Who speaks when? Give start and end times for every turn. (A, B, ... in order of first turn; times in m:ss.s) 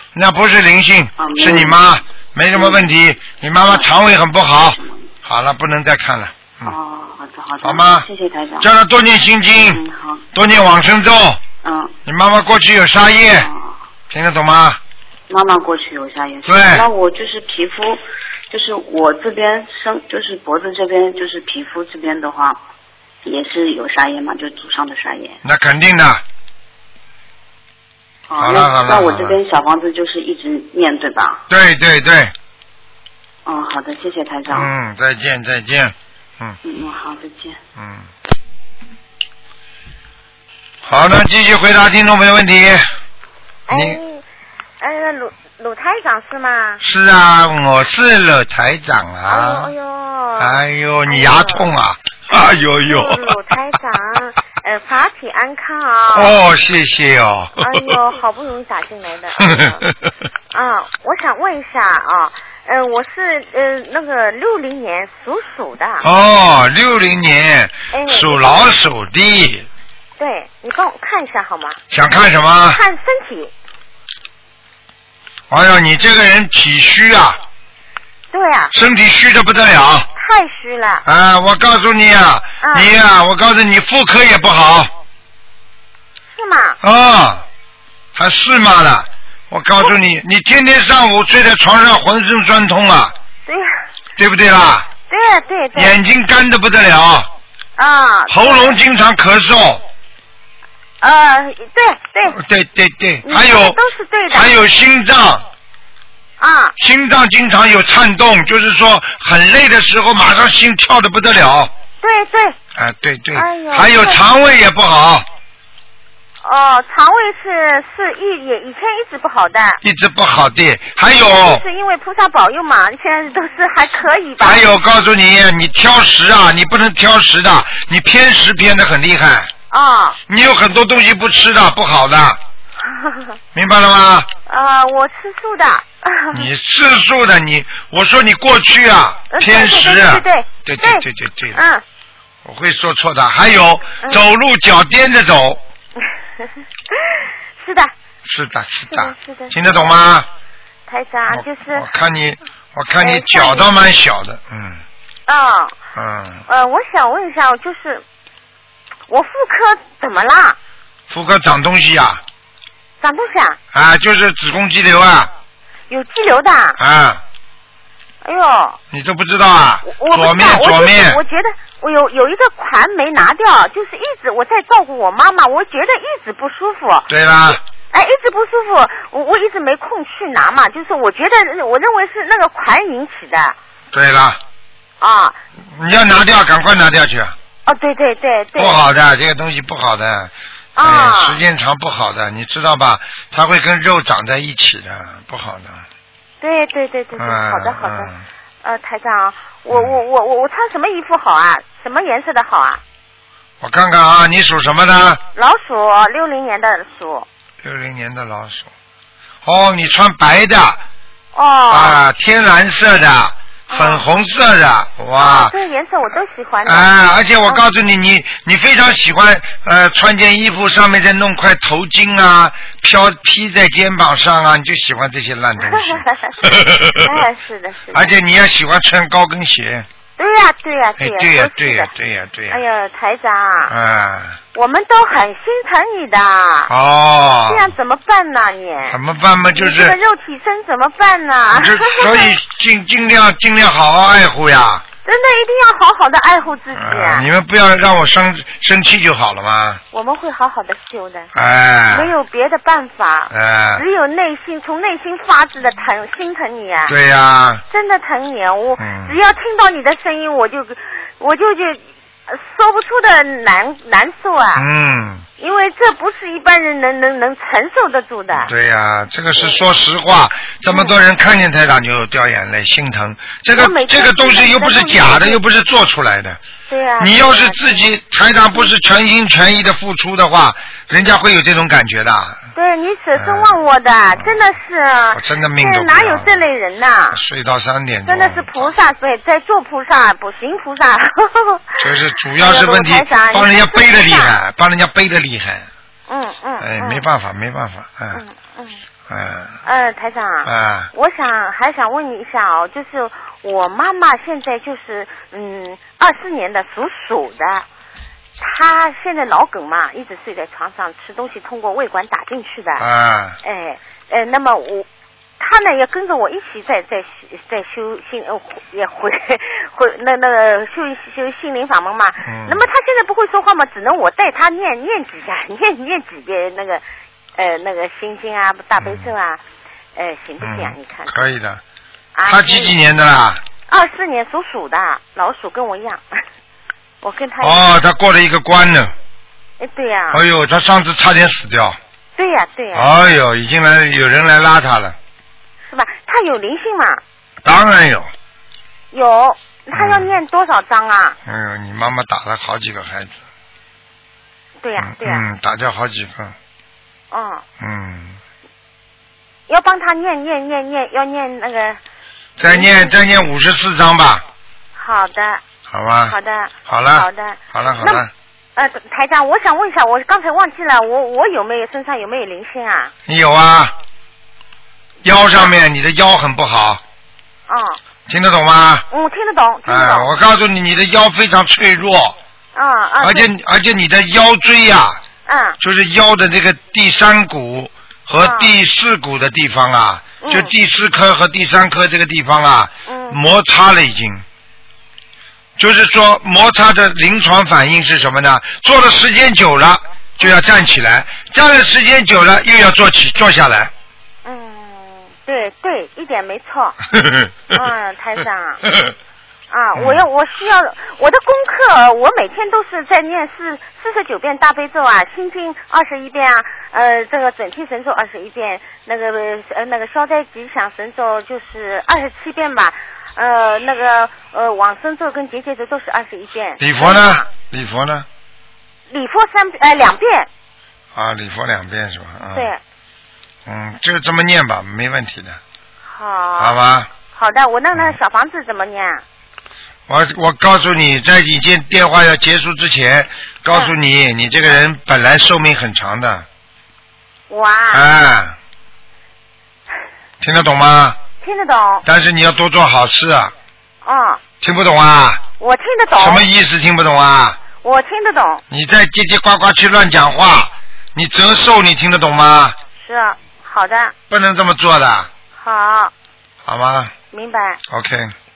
0:00.1-0:06.8 A
0:01.2-0:01.8 B
0:02.5-0:02.9 B
0:03.6-0:03.9 B
0:04.6-0:05.1 B
0:06.6-0:08.7 B
0:07.6-0:08.0 A
0:08.6-0:09.8 A
0:09.6-0:10.2 B
0:10.3-0:11.4 A
0:11.6-0:11.9 B
0:12.0-0:13.5 A
0:13.3-0:13.7 B
0:14.1-0:14.8 A
0:15.3-0:22.6 B
0:16.4-0:16.9 A
0:23.2-0:25.4 B
0:25.4-0:26.2 A
0:28.3-0:31.4 B
0:28.4-0:29.4 A
0:31.5-0:32.3 A
0:33.4-0:34.7 B
0:34.5-0:36.6 A
0:36.6-0:37.6 B
0:37.8-0:38.1 A
0:40.8-0:42.8 A
0:43.7-0:44.2 C
0:43.7-0:44.0 A
0:44.8-0:46.8 C
0:46.8-0:49.7 A
0:49.3-0:51.7 C
0:50.4-0:53.4 A
0:52.3-0:56.4 C
0:56.1-0:58.0 A
0:57.6-0:59.8 C
0:59.4-0:59.9 A
1:00.5-1:06.0 C
1:06.0-1:09.7 A
1:07.9-1:08.6 C
1:10.2-1:11.8 C
1:11.9-1:12.8 A
1:12.7-1:13.5 C
1:15.5-1:17.4 A
1:18.3-1:18.7 C
1:18.7-1:20.1 A
1:20.2-1:21.0 C
1:21.0-1:24.9 A
1:22.6-1:22.9 C
1:26.3-1:26.8 C
1:26.8-1:27.4 A
1:28.1-1:33.1 A
1:34.2-1:34.9 A
1:35.1-1:35.9 C
1:35.7-1:37.3 A
1:37.8-1:38.8 C
1:38.3-1:39.8 A
1:41.0-1:42.4 C
1:42.3-1:43.8 A
1:43.2-1:44.5 C
1:44.3-1:45.4 A
1:46.4-1:46.7 C
1:46.8-1:51.7 A
1:52.0-1:52.6 C
1:52.7-1:55.2 A
1:53.3-1:54.2 C
1:56.4-1:59.8 C
1:59.8-2:01.6 A
2:01.2-2:04.7 C
2:04.4-2:09.5 A
2:09.7-2:10.2 C
2:10.3-2:12.4 A
2:12.8-2:13.3 C
2:13.5-2:14.3 A
2:14.4-2:16.5 C
2:16.3-2:21.6 A
2:19.3-2:21.8 C
2:22.4-2:25.6 A
2:26.4-2:27.9 C
2:28.2-2:30.3 A
2:28.9-2:29.6 C
2:30.9-2:31.9 C
2:31.3-2:34.8 A
2:33.0-2:33.7 C
2:35.3-2:35.8 C
2:35.9-2:36.4 A
2:36.5-2:38.0 C
2:39.1-2:40.6 C
2:41.1-2:42.2 A
2:43.0-2:43.6 C
2:43.7-2:45.3 A
2:45.9-2:46.8 C
2:46.8-2:47.2 A
2:48.2-2:48.8 C
2:48.9-2:51.2 A
2:49.8-3:03.6 C
2:57.1-2:57.6 A
3:03.9-3:04.4 A
3:05.0-3:05.4 C
3:05.7-3:07.4 A
3:07.6-3:08.8 C
3:08.6-3:15.8 A
3:10.8-3:11.4 C
3:16.4-3:18.1 C
3:17.2-3:18.2 A
3:18.6-3:22.8 C
3:19.7-3:20.0 A
3:23.6-3:25.2 A
3:25.4-3:27.3 C
3:27.6-3:28.7 A
3:29.4-3:30.8 A
3:31.4-3:32.0 C
3:31.7-3:35.5 A
3:33.7-3:34.0 C
3:35.2-3:36.9 C
3:36.6-3:47.2 A
3:45.6-3:48.1 C
3:47.9-3:49.9 A
3:50.2-3:51.9 C
3:51.0-3:52.6 A
3:52.5-3:53.7 C
3:53.7-3:54.4 A
3:54.5-3:56.7 C
3:56.7-3:57.7 A
3:57.5-3:59.0 C
3:58.9-4:00.0 A
3:59.5-4:02.4 C
4:01.5-4:04.8 A
4:05.0-4:07.2 C
4:06.7-4:09.8 A
4:09.9-4:11.3 C
4:11.4-4:12.1 A
4:11.9-4:16.9 C
4:13.3-4:13.8 A
4:16.9-4:17.6 A
4:17.7-4:24.6 C
4:18.8-4:19.1 A
4:24.6-4:25.2 A
4:25.4-4:28.5 C
4:28.4-4:36.4 A
4:30.7-4:31.0 C
4:33.5-4:35.4 C
4:36.7-4:37.9 C
4:37.0-4:42.4 A
4:42.5-4:47.2 C
4:43.1-4:43.5 A
4:45.1-4:46.4 A
4:47.1-4:48.7 A
4:48.0-4:51.9 C
4:51.8-4:55.7 A
4:52.4-4:54.4 C
4:56.1-4:57.0 C
4:56.6-4:58.2 A
4:58.1-4:58.8 C
4:59.1-4:59.6 A
4:59.6-5:07.6 C
5:00.4-5:00.9 A
5:08.4-5:12.9 C
5:12.8-5:13.4 A
5:13.4-5:14.9 C
5:15.4-5:26.8 C
5:22.2-5:22.6 A
5:27.4-5:29.4 C
5:28.8-5:29.1 A
5:29.9-5:31.1 C
5:30.4-5:31.6 A
5:32.1-5:32.7 C
5:32.2-5:33.4 A
5:33.7-5:36.0 C
5:37.0-5:37.7 C
5:37.4-5:38.9 A
5:39.6-5:40.2 C
5:40.1-5:41.8 A
5:42.2-5:42.9 C
5:42.7-5:45.0 A
5:45.6-5:47.0 C
5:47.4-5:48.1 A
5:48.9-5:51.2 C
5:49.7-5:50.2 A
5:51.2-5:53.1 A
5:54.6-5:55.2 C
5:54.8-5:56.4 A
5:57.1-5:57.4 C
5:57.6-5:58.2 A
5:59.5-6:01.8 C
6:02.4-6:04.2 A
6:02.4-6:03.0 C
6:04.8-6:05.4 C
6:05.7-6:08.1 A
6:06.1-6:08.0 C
6:08.6-6:12.9 C
6:13.1-6:13.7 A
6:15.0-6:16.8 A
6:17.5-6:17.8 C
6:18.1-6:18.9 A
6:18.9-6:20.1 C
6:19.7-6:22.2 A
6:22.5-6:23.3 C
6:23.0-6:25.0 A
6:25.2-6:25.6 C
6:25.6-6:34.2 A
6:28.2-6:28.5 C
6:30.2-6:30.5 C
6:32.9-6:33.2 C
6:35.6-6:43.7 A
6:44.2-6:46.8 C
6:47.5-6:48.6 C
6:49.5-7:07.2 C
6:49.8-6:50.0 A
7:06.6-7:08.0 A
7:08.9-7:10.3 C
7:10.9-7:12.5 A
7:12.3-7:12.6 C
7:13.4-7:15.4 A
7:15.9-7:19.0 C
7:16.4-7:16.9 A
7:19.9-7:26.2 A
7:27.3-7:27.8 C
7:27.7-7:28.4 A
7:30.2-7:31.0 A
7:31.2-7:31.8 C
7:31.9-7:33.3 A
7:33.8-7:34.2 C
7:34.4-7:35.2 A
7:35.4-7:36.2 C
7:35.9-7:37.4 A
7:37.5-7:38.4 C
7:38.5-7:42.6 A
7:42.8-7:43.9 C
7:44.1-7:45.1 A
7:45.4-7:45.9 C
7:46.4-7:46.9 A
7:47.1-7:47.6 C
7:47.7-7:48.1 A